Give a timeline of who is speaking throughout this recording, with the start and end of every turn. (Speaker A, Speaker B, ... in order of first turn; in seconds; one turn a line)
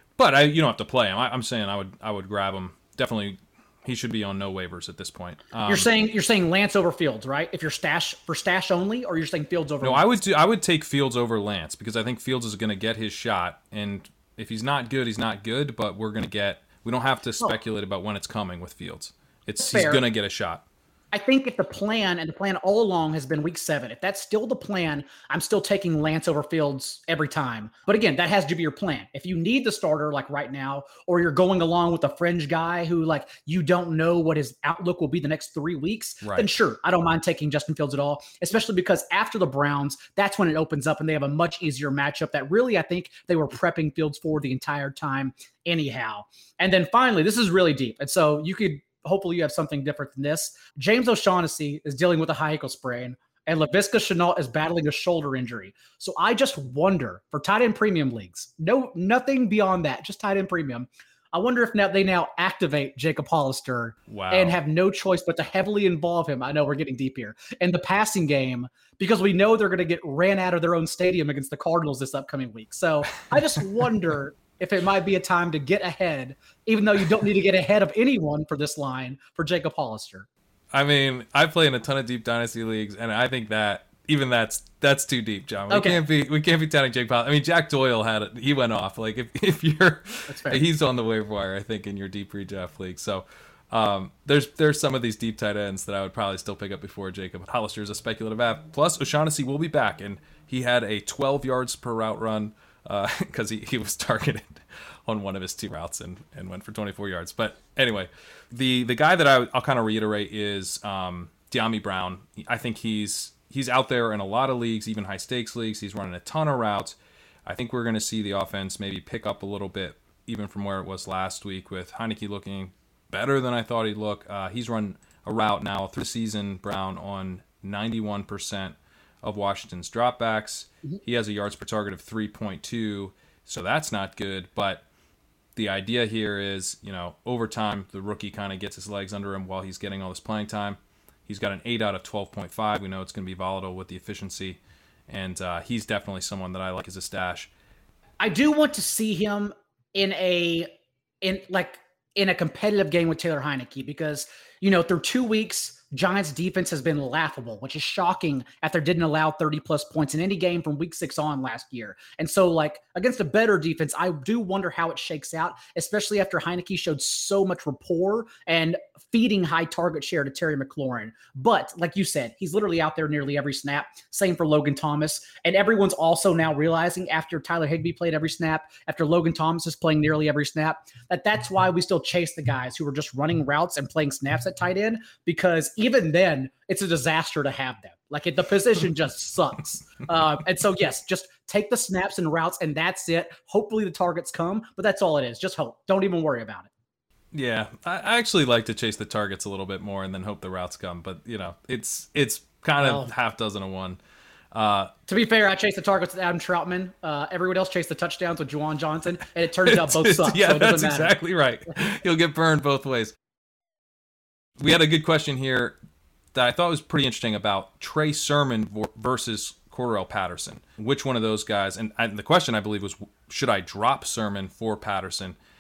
Speaker A: 0.2-5.9
Speaker B: 5.7-10.1
Speaker A: 9.8-20.6
Speaker B: 19.6-20.0
Speaker B: 21.1-80.3
Speaker A: 36.2-36.5
Speaker A: 64.1-64.6
Speaker A: 80.7-134.8
Speaker B: 85.7-86.0
Speaker B: 90.3-90.6
Speaker A: 135.6-147.5
Speaker B: 148.2-150.7
Speaker B: 151.2-196.7
Speaker A: 197.3-204.0
Speaker B: 202.8-203.1
Speaker A: 204.5-204.9
Speaker B: 205.1-211.2
Speaker A: 209.7-213.1
Speaker A: 214.6-215.8
Speaker A: 216.3-225.4